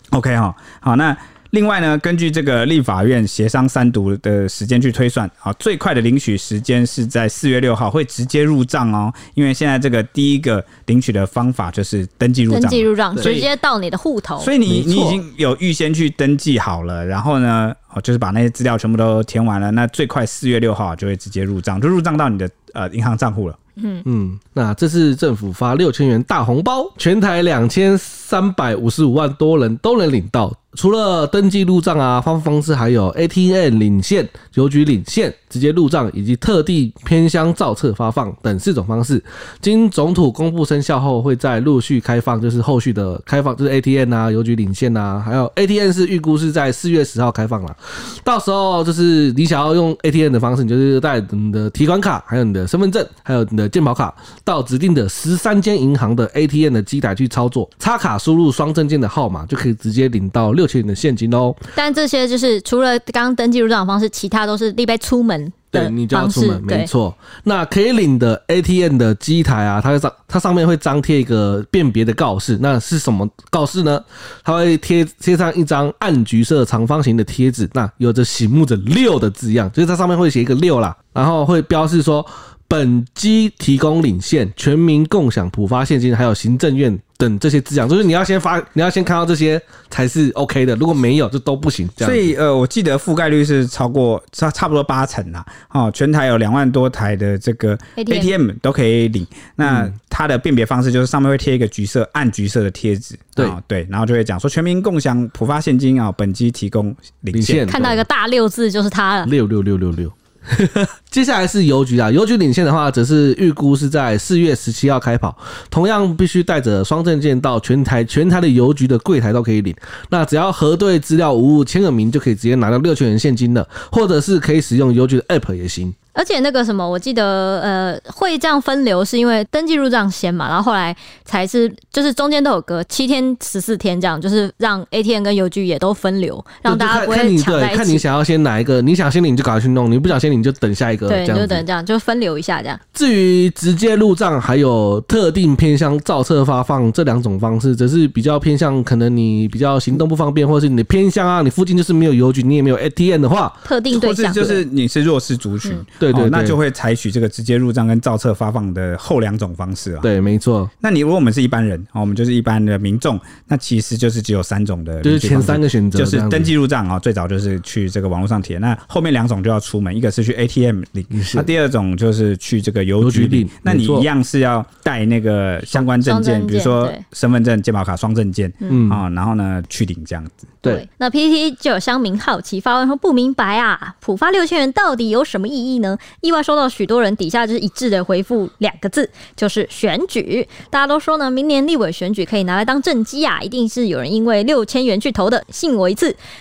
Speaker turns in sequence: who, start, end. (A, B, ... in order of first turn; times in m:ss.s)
0:00.1-0:13.5 A
0:12.5-0:14.5 B
0:13.2-0:13.4 C
0:14.4-0:23.6 A
0:14.7-0:15.2 C
0:23.8-0:24.0 B
0:24.1-1:01.7 C
1:01.8-1:06.9 B
1:05.7-1:32.3 C
1:32.0-1:47.8 A
1:38.0-1:38.3 B
1:47.3-1:48.0 C
1:47.7-1:49.3 B
1:49.3-2:06.0 C
2:06.2-2:18.0 B
2:16.7-2:21.6 C
2:21.1-2:22.8 B
2:23.0-2:33.6 C
2:33.6-2:34.6 B
2:33.9-2:40.1 A
2:36.0-2:36.6 C
2:40.0-2:40.7 C
2:40.8-3:00.5 A
2:45.0-2:46.5 C
2:51.1-2:51.5 C
2:53.0-2:54.1 C
2:55.8-2:57.0 B
2:58.7-2:59.0 C
3:00.6-3:16.2 B